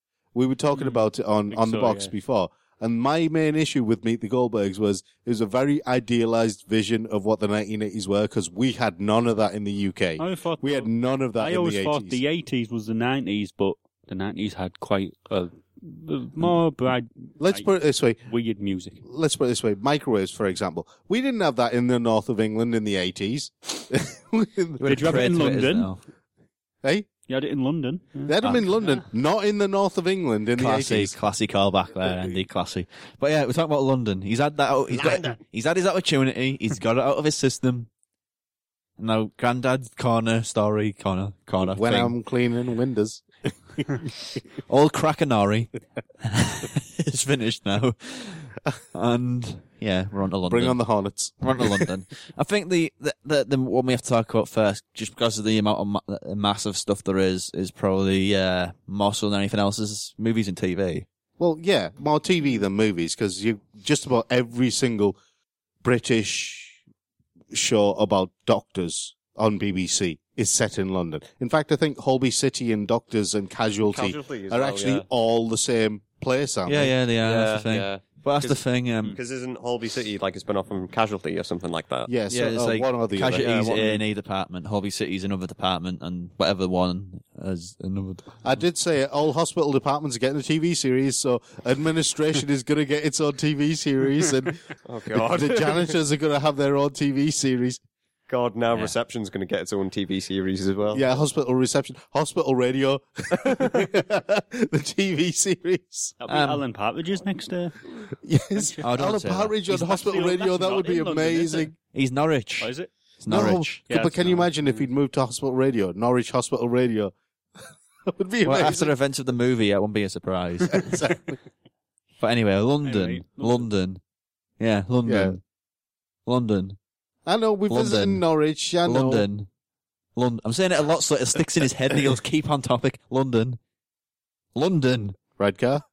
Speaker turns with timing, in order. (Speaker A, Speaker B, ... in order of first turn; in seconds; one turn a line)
Speaker A: 0.3-12.2
Speaker B: 0.7-2.1
Speaker B: 10.2-17.7
Speaker A: 17.4-18.2
Speaker B: 18.3-19.0
Speaker A: 19.0-25.3
Speaker C: 24.8-26.0
Speaker B: 24.9-25.9
Speaker B: 27.3-29.0
Speaker A: 28.3-31.1
Speaker C: 30.6-37.9
Speaker D: 34.9-35.4
Speaker C: 39.0-42.1
Speaker A: 41.7-44.0
Speaker C: 44.7-45.7
Speaker C: 46.2-50.8
Speaker A: 50.5-51.9
Speaker C: 51.4-61.1
Speaker A: 61.4-65.2
Speaker A: 65.8-66.8
Speaker A: 67.5-77.0
Speaker D: 73.8-75.1
Speaker C: 76.7-79.2
Speaker D: 77.2-82.1
Speaker A: 82.1-83.8
Speaker C: 82.3-88.4
Speaker D: 83.4-84.0
Speaker A: 88.4-97.8
Speaker D: 94.9-96.0
Speaker D: 98.3-101.1
Speaker A: 100.9-106.2
Speaker B: 106.2-107.8
Speaker C: 106.3-106.6
Speaker A: 108.2-111.7
Speaker B: 108.6-108.8
Speaker C: 108.8-109.6
Speaker B: 109.7-111.7
Speaker C: 111.9-113.8
Speaker B: 112.6-112.9
Speaker A: 113.3-117.1
Speaker B: 113.9-114.8
Speaker A: 118.1-118.9
Speaker C: 118.4-121.0
Speaker A: 120.7-121.4
Speaker C: 122.2-124.0
Speaker B: 122.8-123.7
Speaker C: 124.6-125.4
Speaker A: 125.1-125.4
Speaker C: 126.3-126.8
Speaker A: 127.3-129.3
Speaker C: 127.7-128.2
Speaker C: 128.8-129.5
Speaker C: 130.2-133.6
Speaker C: 134.6-135.2
Speaker A: 135.4-135.8